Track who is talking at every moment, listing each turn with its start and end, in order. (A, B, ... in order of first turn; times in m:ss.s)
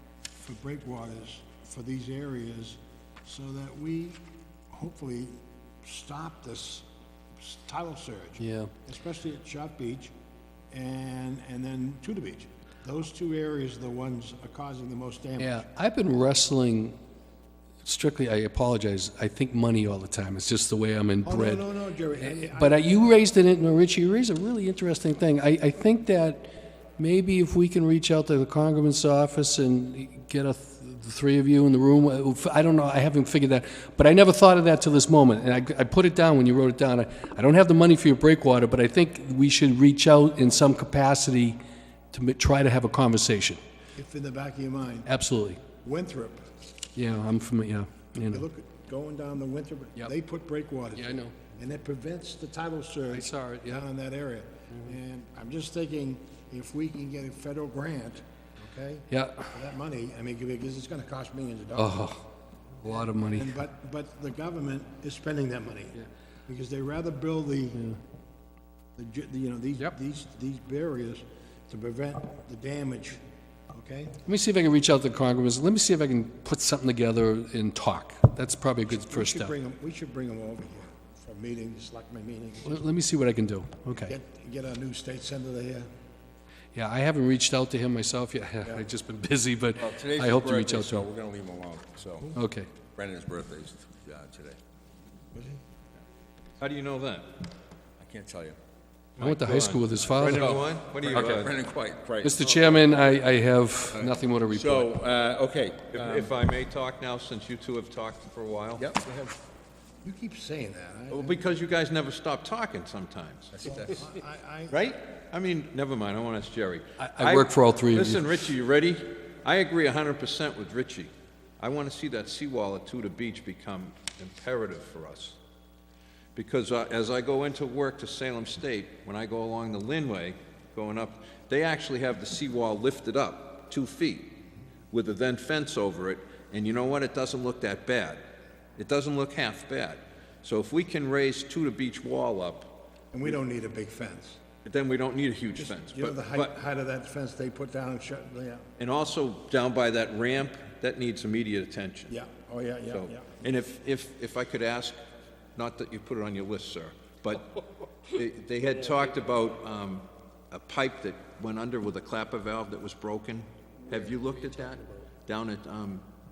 0:00.4-0:06.9 A
0:07.4-0:10.1 A
0:08.4-0:08.7 B
0:10.7-0:15.6 A
0:15.4-0:17.0 B
0:17.8-0:21.6 B
0:21.2-0:22.9 A
0:22.2-0:41.6 B
0:42.1-0:43.6 B
0:44.0-0:45.1 A
0:45.1-0:45.6 B
0:45.8-0:46.5 A
0:47.0-0:48.4 B
0:48.3-1:02.1 A
0:51.0-0:51.4 B
0:53.1-0:53.8 B
0:59.1-0:59.5 B
1:01.8-1:02.2 B
1:02.8-1:03.6 B
1:02.8-1:07.9 A
1:09.0-1:13.2 A
1:13.7-1:14.2 A
1:14.3-1:19.5 B
1:18.9-1:22.9 A
1:22.6-1:24.2 B
1:24.0-1:25.9 A
1:26.8-1:31.1 B
1:29.8-1:32.4 C
1:32.4-1:32.7 B
1:32.9-1:34.6 C
1:35.3-1:35.6 A
1:36.6-1:37.4 D
1:38.0-1:38.6 C
1:39.2-1:41.6 D
1:39.2-1:40.6 B
1:40.1-1:42.8 C
1:42.2-1:44.9 B
1:43.9-1:46.3 C
1:45.9-1:48.8 D
1:49.0-1:49.4 A
1:50.0-1:51.4 A
1:51.1-1:53.8 D
1:53.5-1:53.9 C
1:53.6-1:54.8 A
1:54.7-2:05.4 D
1:57.0-1:58.3 B
2:06.4-2:14.4 D
2:14.9-2:18.2 D
2:18.8-2:22.8 D
2:23.1-2:24.4 A
2:24.6-2:26.5 D
2:25.6-2:28.7 A
2:28.8-2:32.1 D
2:32.1-2:33.4 A
2:32.9-2:35.0 D
2:35.6-2:37.6 D
2:38.1-2:46.1 D